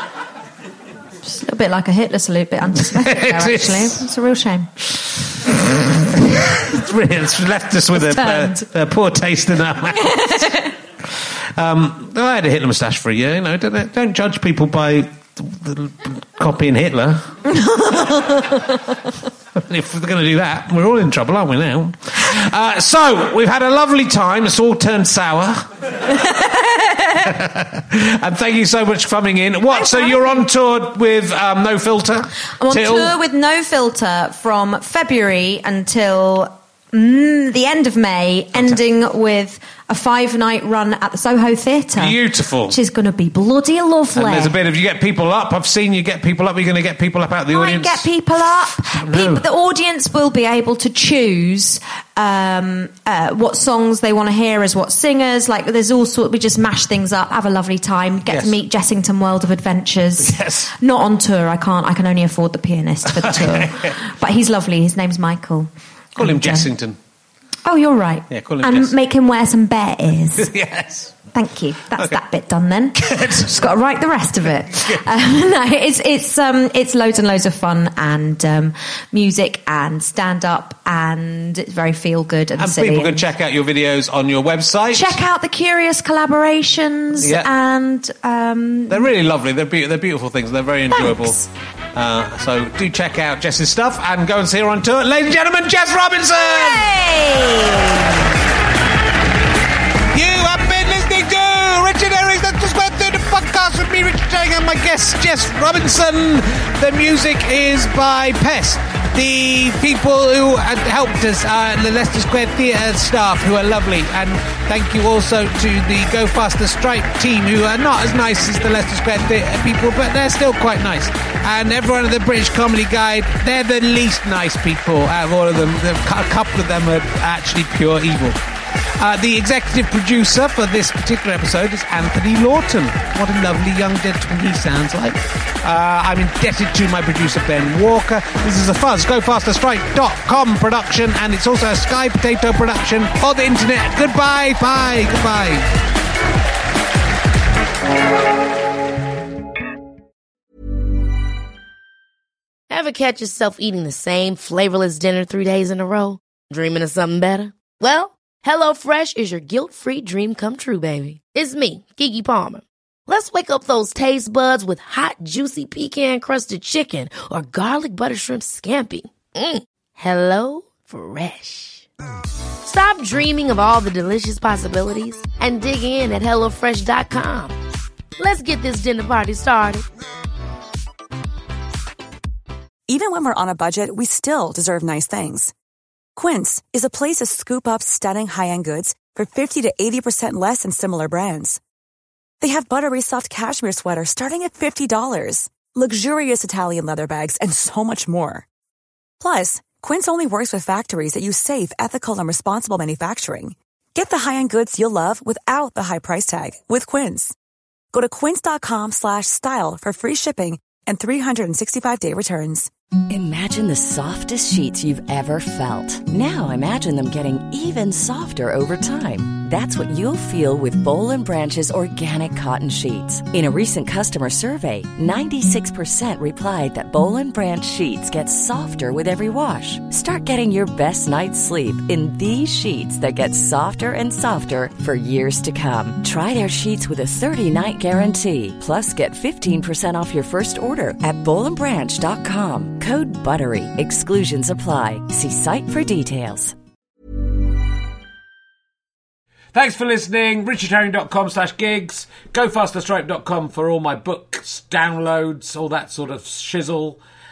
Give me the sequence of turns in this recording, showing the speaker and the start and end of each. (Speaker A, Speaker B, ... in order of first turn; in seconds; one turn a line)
Speaker A: 1.2-4.7
Speaker B: 2.7-4.0
Speaker B: 4.9-17.3
Speaker A: 7.9-8.7
Speaker A: 10.0-10.7
Speaker A: 17.5-18.7
Speaker B: 19.5-26.1
Speaker A: 26.2-27.1
Speaker B: 27.1-33.2
Speaker A: 29.7-30.4
Speaker A: 32.5-42.2
Speaker B: 38.5-38.8
Speaker B: 42.0-42.8
Speaker A: 42.7-44.5
Speaker B: 44.1-48.1
Speaker A: 47.5-66.7
Speaker B: 48.9-49.4
Speaker B: 58.3-58.6
Speaker B: 60.2-60.7
Speaker B: 63.0-63.9
Speaker B: 66.2-67.0
Speaker A: 67.6-70.5
Speaker B: 68.3-68.9
Speaker B: 70.3-71.2
Speaker A: 71.3-83.3
Speaker B: 73.0-73.5
Speaker B: 82.6-85.2
Speaker A: 84.9-89.1
Speaker B: 87.2-87.5
Speaker B: 88.9-97.0
Speaker A: 90.9-91.5
Speaker A: 96.3-98.1
Speaker B: 100.1-128.4
Speaker B: 129.0-145.7
Speaker C: 152.7-171.8
Speaker C: 172.6-177.6
Speaker C: 178.2-179.8
Speaker D: 182.9-185.5
Speaker D: 186.2-191.6
Speaker D: 192.4-198.5
Speaker D: 199.2-207.3
Speaker D: 207.9-212.7
Speaker E: 213.1-246.6
Speaker B: 249.5-257.0